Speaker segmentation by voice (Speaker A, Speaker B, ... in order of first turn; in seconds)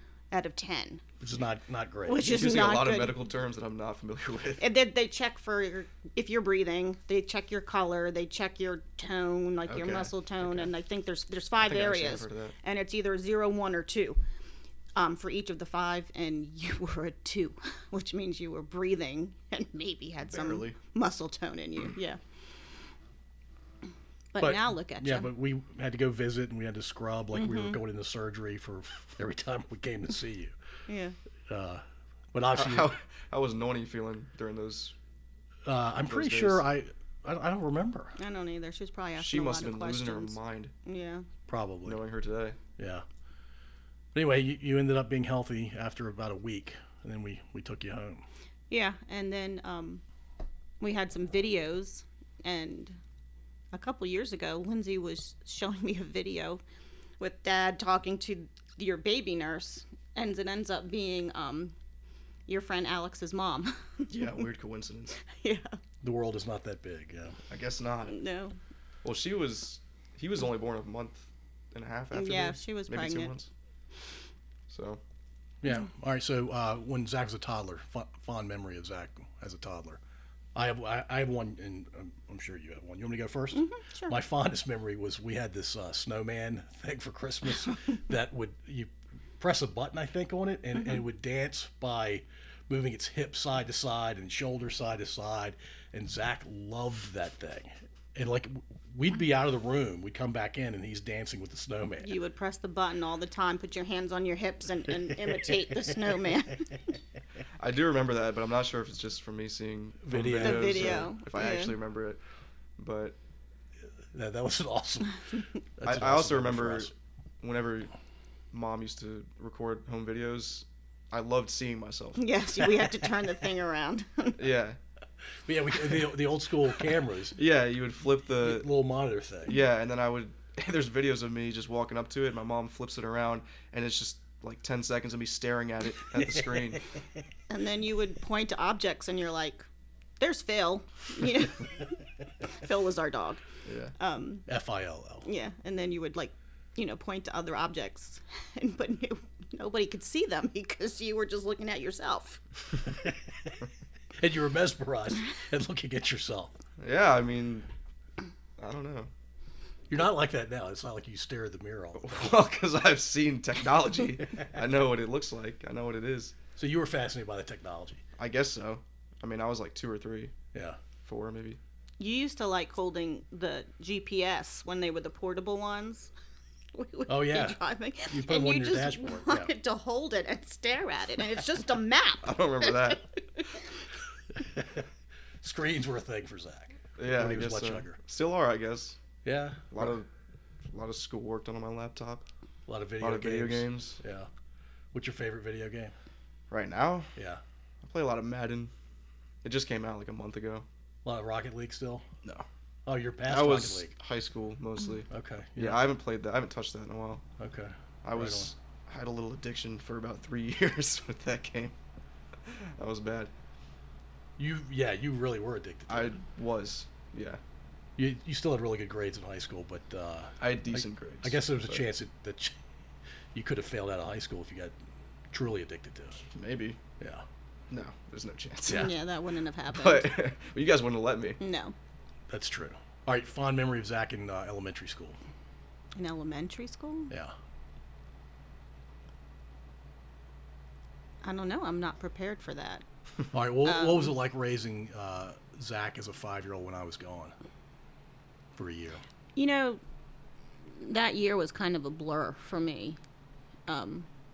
Speaker A: 0.3-1.0, 2.0-3.1, 4.6-14.2, 14.9-22.2, 24.3-25.3, 27.3-27.8, 30.9-31.1, 38.2-41.3, 48.7-50.0, 50.8-53.0, 53.7-56.6, 57.2-61.7, 62.5-64.4, 65.3-65.7, 68.1-68.5, 72.1-73.4, 83.5-84.1, 102.0-106.7, 110.4-111.7, 122.2-124.4, 137.5-139.7, 140.2-141.8, 142.4-143.4, 144.0-144.5, 145.2-152.4, 172.0-176.1, 176.7-183.4, 228.7-230.2, 231.4-231.7, 235.9-237.1, 241.2-242.8, 243.6-244.1, 249.3-249.8, 250.7-253.0, 253.7-254.1
Speaker B: 1.2-2.7, 24.4-30.5, 31.5-32.9, 35.6-38.1, 41.5-42.0, 42.8-43.0, 44.1-48.2, 66.0-67.4, 75.6-80.0, 80.5-102.1, 110.0-111.1, 114.1-116.9, 125.5-127.4, 128.3-129.6, 136.2-136.4, 144.5-145.3, 152.9-153.6, 154.2-156.5, 159.9-162.3, 166.6-168.0, 170.5-170.8, 177.1-179.5, 184.3-184.8, 185.4-188.0, 189.2-189.8, 192.7-194.3, 194.9-195.9, 197.2-197.4, 201.0-202.0, 202.8-203.9, 205.1-205.8, 207.4-208.5, 214.4-216.2, 218.0-222.5, 223.3-224.7, 225.3-226.2, 232.3-235.2, 243.3-247.3, 248.5-249.0
Speaker C: 2.2-4.6, 9.7-10.7, 11.6-12.5, 20.3-20.8, 32.5-34.9, 36.0-36.6, 39.2-40.7, 41.8-42.6, 64.1-65.2, 67.5-68.2, 69.0-73.5, 74.7-75.0, 107.6-112.2, 112.8-113.2, 115.8-117.9, 118.5-122.2, 124.4-124.8, 127.3-128.7, 129.4-136.8, 143.6-143.9, 156.8-157.7, 158.6-159.1, 161.9-166.3, 168.2-170.3, 171.0-171.6, 182.2-183.1, 187.0-189.0, 189.7-190.1, 190.7-192.2, 193.0-194.0, 196.5-197.1, 197.8-198.7, 199.4-200.7, 203.2-207.2, 208.0-211.7, 212.4-213.3, 215.9-217.4, 220.4-221.8, 226.3-226.8, 227.7-228.9, 229.7-231.4